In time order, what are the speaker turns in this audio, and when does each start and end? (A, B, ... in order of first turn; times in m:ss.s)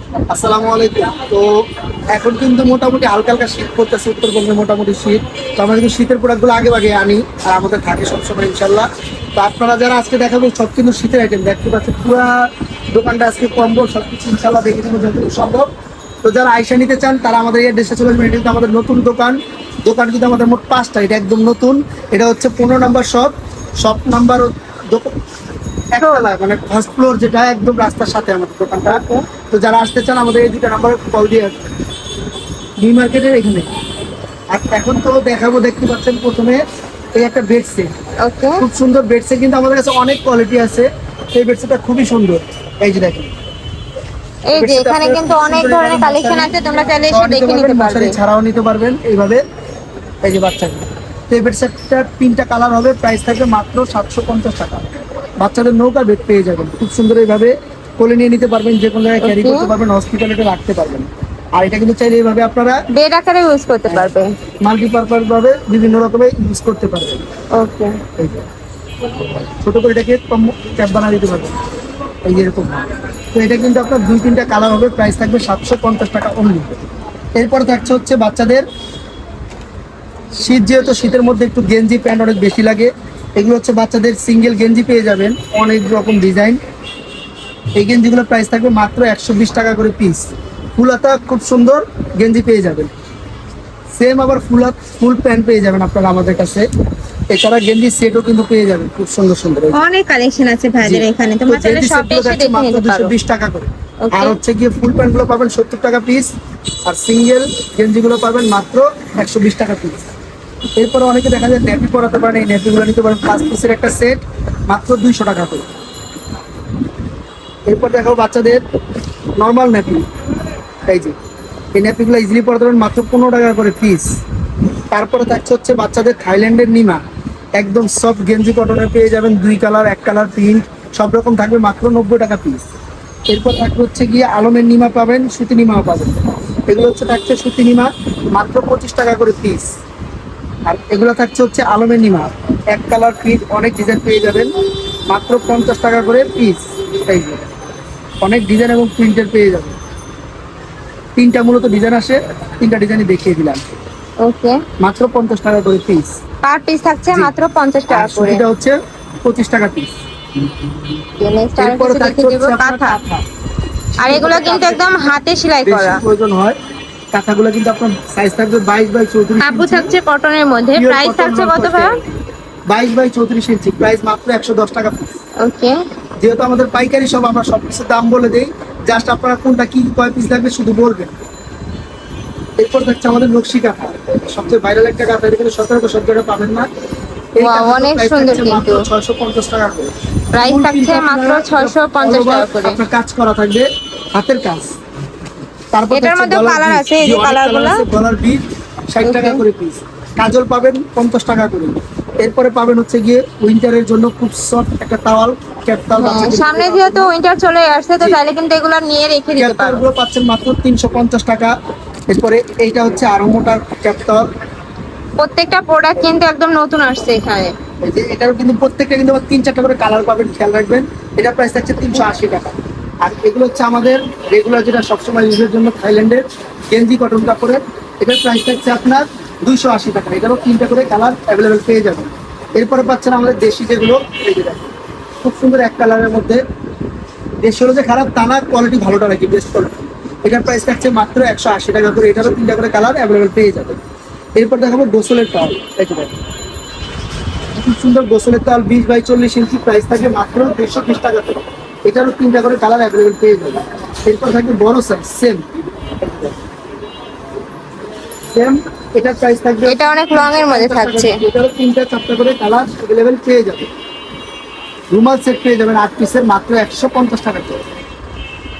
0:00.3-0:01.5 A
0:02.1-0:15.7 A
0:16.2-0:25.1 A
0:25.9-0:31.6 A
0:32.8-0:33.7 A
0:34.5-0:36.6 A
0:37.2-0:37.9 A
0:38.2-0:38.6 B
0:38.6-0:43.3 A
0:44.5-0:48.2 B
0:44.6-0:46.5 A
0:47.1-0:49.4 A
0:50.2-0:54.9 A
0:55.4-1:02.8 A
0:59.2-0:59.7 B
1:02.9-1:04.3 B
1:04.6-1:07.2 A
1:07.6-1:08.0 B
1:08.2-1:08.4 A
1:09.6-1:11.5 A
1:12.2-1:16.7 A
1:17.3-1:18.6 A
1:20.4-1:26.6 A
1:27.8-1:32.9 A
1:34.0-1:36.7 A
1:37.3-1:39.8 A
1:39.7-1:43.1 B
1:40.8-1:46.3 A
1:44.0-1:44.4 B
1:46.8-1:50.1 A
1:50.8-1:55.6 A
1:57.7-1:58.6 A
1:59.4-2:00.0 A
2:00.9-2:01.1 A
2:01.7-2:04.1 A
2:04.9-2:07.0 A
2:07.6-2:12.7 A
2:13.3-2:19.7 A
2:20.6-2:24.5 A
2:25.1-2:27.4 A
2:28.2-2:29.8 A
2:31.2-2:33.6 A
2:34.2-2:34.6 B
2:34.8-2:36.2 A
2:36.4-2:38.4 B
2:37.9-2:39.9 A
2:41.2-2:43.0 B
2:41.6-2:43.2 A
2:44.0-2:45.0 A
2:44.0-2:46.0 B
2:45.6-2:46.6 A
2:47.1-2:49.9 A
2:49.4-2:52.0 B
2:50.8-2:52.1 A
2:52.7-2:55.2 A
2:55.4-2:55.8 B
2:56.2-3:01.1 A
3:02.6-3:06.7 A
3:07.4-3:14.7 A
3:07.4-3:08.8 B
3:10.3-3:12.8 B
3:15.7-3:27.1 A
3:15.9-3:17.8 B
3:19.0-3:19.4 B
3:26.0-3:29.8 B
3:29.4-3:31.5 A
3:32.1-3:34.3 A
3:35.2-3:37.5 B
3:37.8-3:56.4 A
3:57.4-4:03.8 A
4:04.4-4:06.1 A
4:07.6-4:15.4 A
4:16.0-4:16.4 A
4:18.3-4:23.7 A
4:19.6-4:21.2 B
4:24.9-4:27.6 A